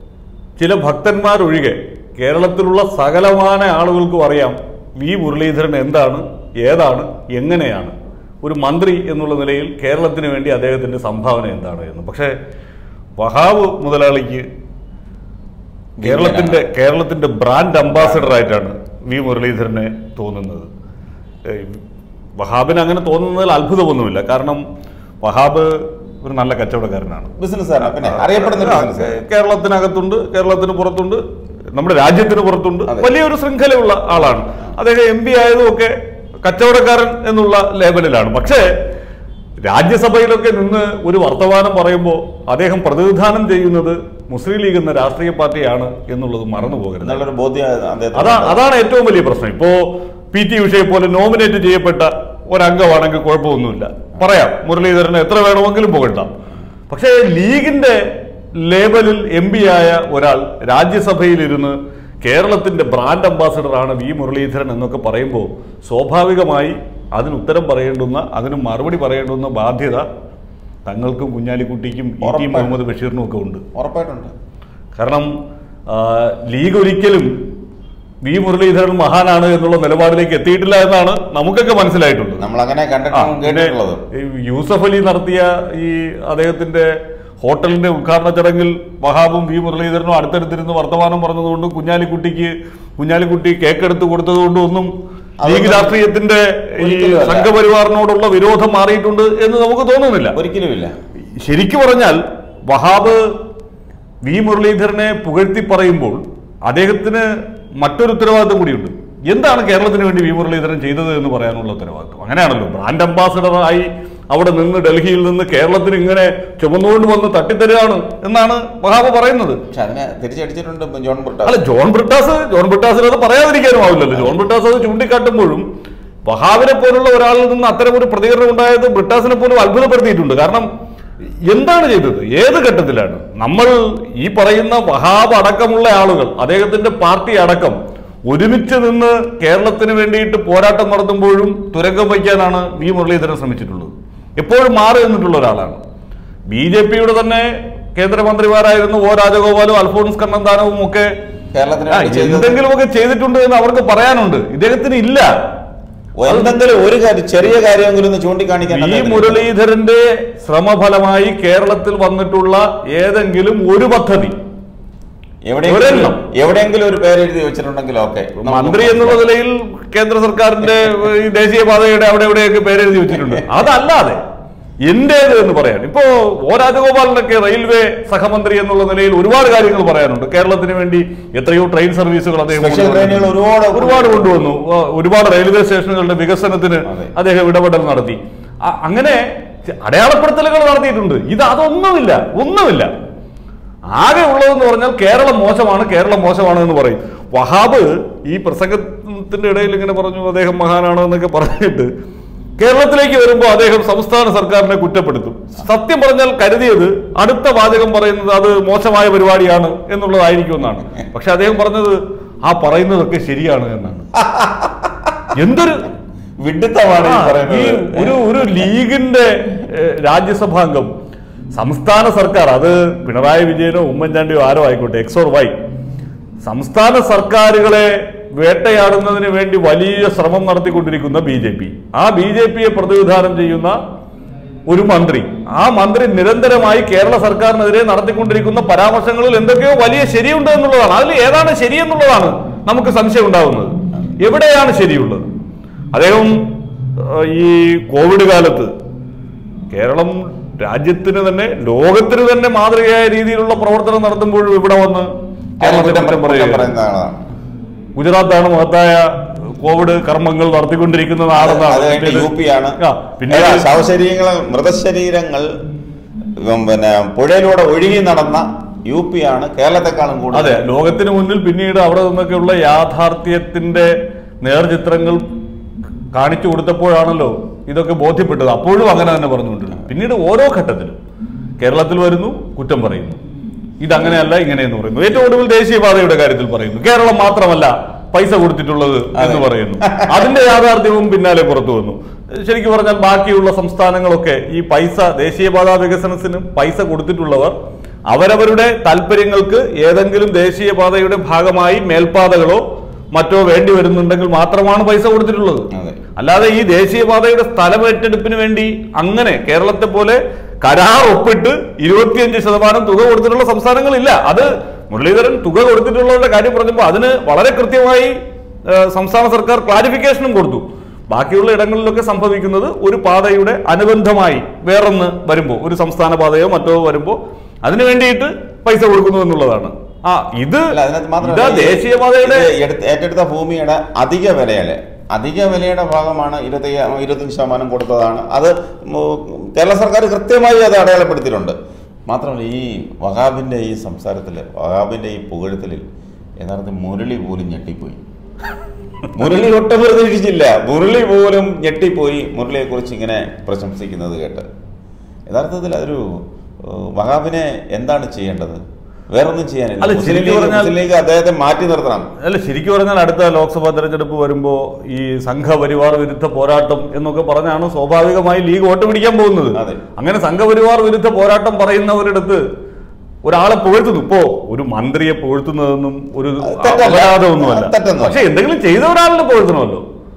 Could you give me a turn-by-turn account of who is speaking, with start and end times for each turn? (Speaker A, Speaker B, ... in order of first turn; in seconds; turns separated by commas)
Speaker A: 0.6-12.3, Speaker A: 13.2-14.4, Speaker B: 16.0-16.6, Speaker A: 16.0-20.7, Speaker B: 17.9-18.3, Speaker A: 21.4-21.8, Speaker A: 22.4-24.6, Speaker A: 25.2-25.7, Speaker A: 26.2-27.3, Speaker B: 27.4-29.1, Speaker A: 27.9-31.2, Speaker A: 31.8-38.7, Speaker B: 32.9-33.1, Speaker A: 39.7-47.2, Speaker B: 47.0-48.6, Speaker A: 48.2-56.3, Speaker A: 56.9-58.0, Speaker A: 58.6-70.0, Speaker A: 70.8-73.6, Speaker B: 72.2-72.7, Speaker B: 73.7-74.3, Speaker A: 75.0-75.3, Speaker A: 75.9-77.3, Speaker A: 78.2-82.4, Speaker B: 82.4-84.0, Speaker A: 83.1-94.9, Speaker B: 95.4-96.0, Speaker A: 95.4-100.3, Speaker B: 96.8-97.5, Speaker B: 100.3-100.9, Speaker A: 101.4-103.2, Speaker A: 104.2-107.3, Speaker A: 107.8-119.6, Speaker B: 119.7-121.6, Speaker A: 121.4-125.6, Speaker A: 126.2-130.7, Speaker A: 131.5-137.8, Speaker A: 138.3-145.8, Speaker A: 146.5-151.1, Speaker B: 151.5-152.6, Speaker A: 151.9-155.3, Speaker B: 156.2-159.5, Speaker A: 156.2-156.5, Speaker A: 158.7-164.3, Speaker B: 165.4-169.2, Speaker A: 165.7-166.2, Speaker A: 168.4-174.2, Speaker A: 174.9-192.9, Speaker B: 182.5-184.4, Speaker B: 186.9-187.1, Speaker A: 193.9-201.9, Speaker A: 202.6-214.1, Speaker B: 214.2-214.8, Speaker A: 215.3-215.8, Speaker B: 216.4-218.6, Speaker A: 217.0-220.9, Speaker A: 221.5-225.5, Speaker A: 226.4-233.8, Speaker A: 234.7-245.2, Speaker A: 245.9-246.3, Speaker A: 247.0-248.7, Speaker A: 249.7-255.1, Speaker A: 255.6-256.7, Speaker B: 255.6-257.2, Speaker A: 257.9-259.1, Speaker A: 259.6-263.6, Speaker B: 261.3-262.8, Speaker B: 263.3-265.5, Speaker B: 266.4-270.6, Speaker A: 270.3-275.2, Speaker A: 276.1-281.0, Speaker A: 281.6-283.2, Speaker A: 283.8-297.5, Speaker B: 289.1-290.2, Speaker A: 298.1-302.6, Speaker A: 303.1-318.1, Speaker B: 305.7-306.0, Speaker A: 318.7-332.5, Speaker B: 330.7-341.6, Speaker B: 342.1-345.8, Speaker B: 346.4-348.0, Speaker B: 349.1-354.4, Speaker B: 355.3-356.0, Speaker B: 356.6-358.6, Speaker B: 359.1-362.1, Speaker A: 359.8-360.8, Speaker A: 362.2-372.4, Speaker B: 369.6-369.8, Speaker A: 373.2-379.8, Speaker B: 376.4-378.2